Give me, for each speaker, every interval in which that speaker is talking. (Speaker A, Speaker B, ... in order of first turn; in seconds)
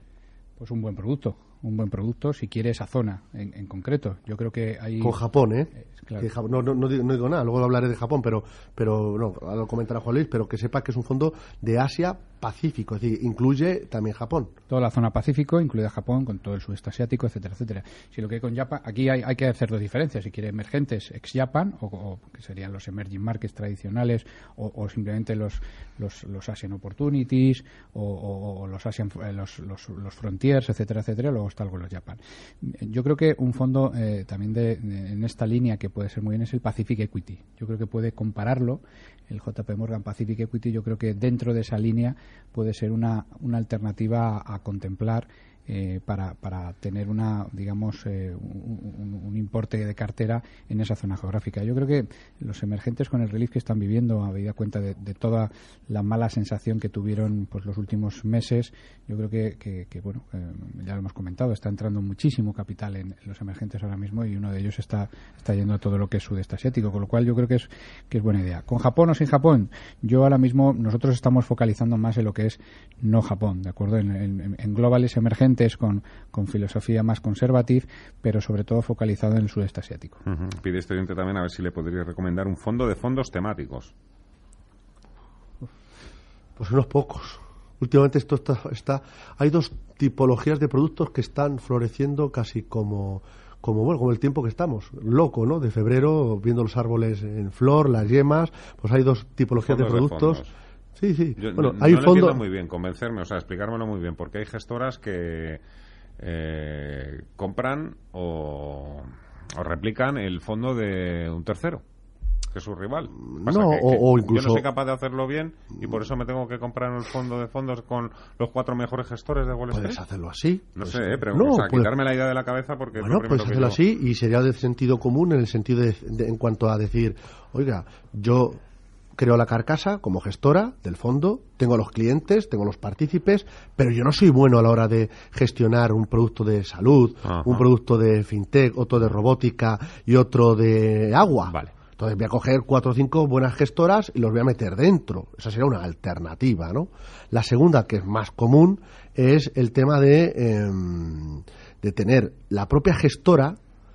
Speaker A: 0.6-5.2, 5.8-6.3, 14.7-80.2
Speaker B: 5.0-14.5, 86.6-102.4, 113.2-114.6, 119.7-121.9, 123.0-128.6, 129.2-153.6
Speaker C: 80.2-83.9, 99.6-100.5, 101.4-105.6, 106.2-111.8, 112.5-120.0, 120.8-123.8, 137.3-137.6